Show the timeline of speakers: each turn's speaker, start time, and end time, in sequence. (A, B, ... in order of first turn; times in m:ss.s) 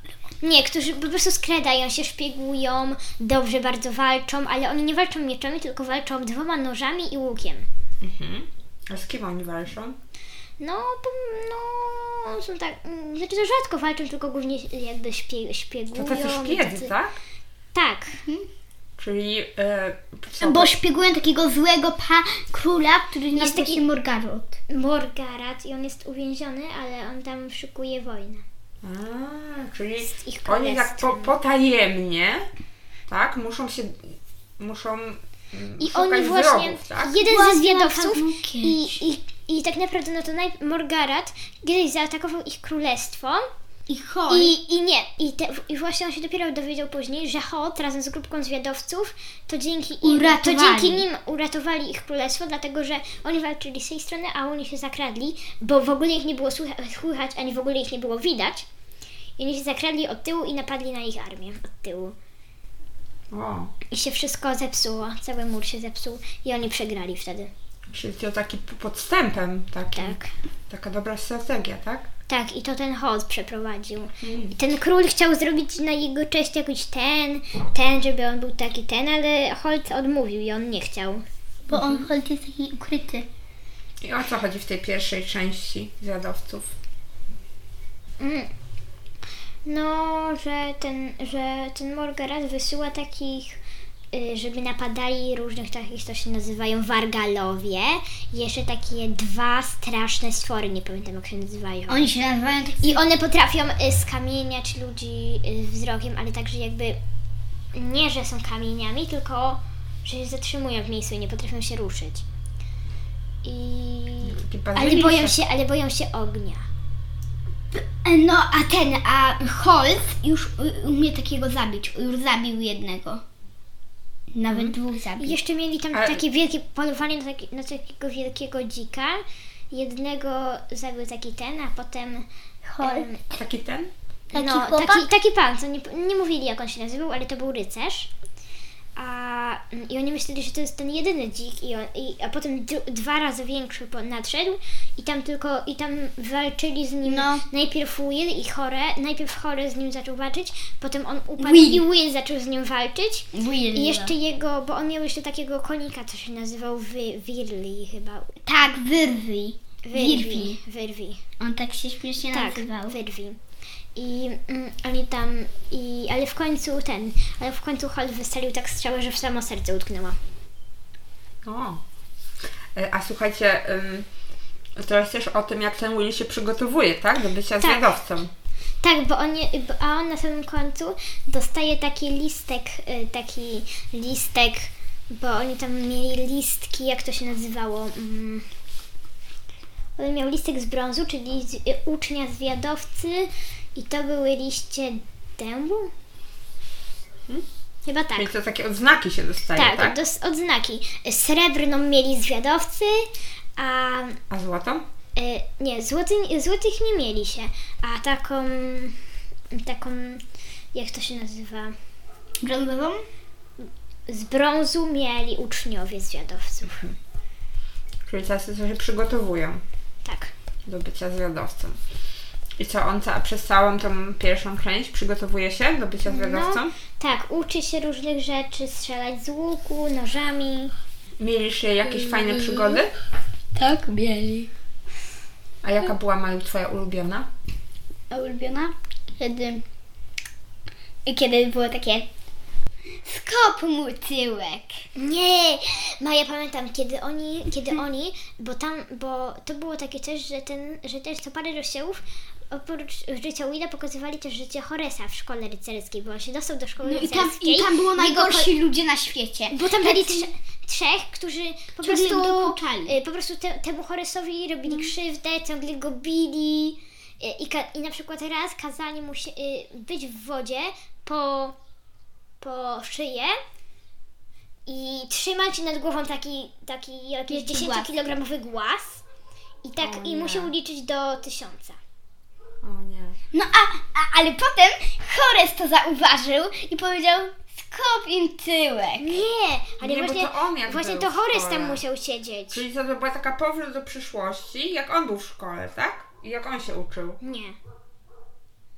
0:00.4-0:07.7 A
0:08.0-0:10.0 B
0:10.6-0:16.9 A
0:16.0-0:17.2 B
0:17.8-0:18.2 A
0:19.0-0:20.8 B
0:20.4-0:24.6 C
0:23.4-0:23.8 A
0:24.7-0:28.4 A
0:28.8-0:32.5 B
0:30.1-0:31.4 A
0:33.1-0:37.2 B
0:35.8-0:43.5 A
0:37.2-0:39.0 C
0:43.9-0:44.6 C
0:44.3-0:58.7 A
0:50.0-0:51.0 C
0:59.4-1:02.2 A
1:03.3-1:03.7 B
1:03.9-1:07.5 A
1:07.9-1:10.2 B
1:10.0-1:10.3 A
1:10.7-1:12.1 B
1:12.3-1:21.2 A
1:14.2-1:14.6 B
1:21.7-1:23.3 C
1:21.7-1:22.1 B
1:24.0-1:26.7 B
1:28.2-1:28.5 A
1:29.7-1:33.6 A
1:34.1-1:42.1 A
1:41.9-1:43.0 C
1:42.8-1:47.0 A
1:47.7-1:52.2 A
1:53.4-1:56.7 A
1:54.2-1:55.4 B
1:57.7-2:03.2 C
2:04.3-2:05.4 C
2:04.5-2:04.8 B
2:05.2-2:12.3 A
2:05.9-2:06.2 B
2:12.6-2:13.1 C
2:12.8-2:13.2 A
2:13.4-2:13.9 B
2:14.3-2:18.1 A
2:14.3-2:15.1 C
2:19.0-2:38.3 A
2:27.0-2:27.4 C
2:31.4-2:31.8 C
2:33.3-2:34.1 C
2:38.4-2:40.6 C
2:39.8-2:41.2 A
2:41.4-2:43.0 C
2:42.3-2:43.4 A
2:44.0-2:50.2 A
2:51.4-2:51.8 B
2:52.7-2:54.1 B
2:54.8-2:58.3 B
2:57.6-2:57.9 A
2:58.8-3:08.5 A
3:10.0-3:15.9 A
3:17.9-3:18.3 A
3:18.1-3:20.0 B
3:19.6-3:24.2 A
3:24.3-3:24.8 B
3:25.2-3:29.0 A
3:29.5-3:30.2 A
3:30.7-3:31.8 A
3:32.4-3:33.0 C
3:34.1-3:36.8 A
3:36.7-3:37.0 B
3:38.1-3:39.6 B
3:40.0-3:40.3 A
3:40.7-3:41.8 B
3:42.6-3:46.7 B
3:46.1-3:50.7 A
3:51.2-3:52.9 B
3:51.9-3:52.8 C
3:53.6-3:54.5 C
3:55.6-3:57.3 B
3:58.1-3:59.6 C
4:01.1-4:02.1 C
4:03.0-4:04.9 C
4:05.0-4:18.5 A
4:16.8-4:20.3 C
4:19.5-4:31.6 A
4:21.8-4:22.9 C
4:24.7-4:24.9 C
4:32.4-4:33.4 A
4:34.7-4:39.0 A
4:37.3-4:37.9 C
4:39.6-4:41.8 A
4:39.8-4:40.5 B
4:42.6-4:43.2 B
4:43.3-4:49.2 C
4:49.0-4:52.6 A
4:49.8-4:51.8 B
4:52.5-4:57.2 B
4:57.2-4:57.6 A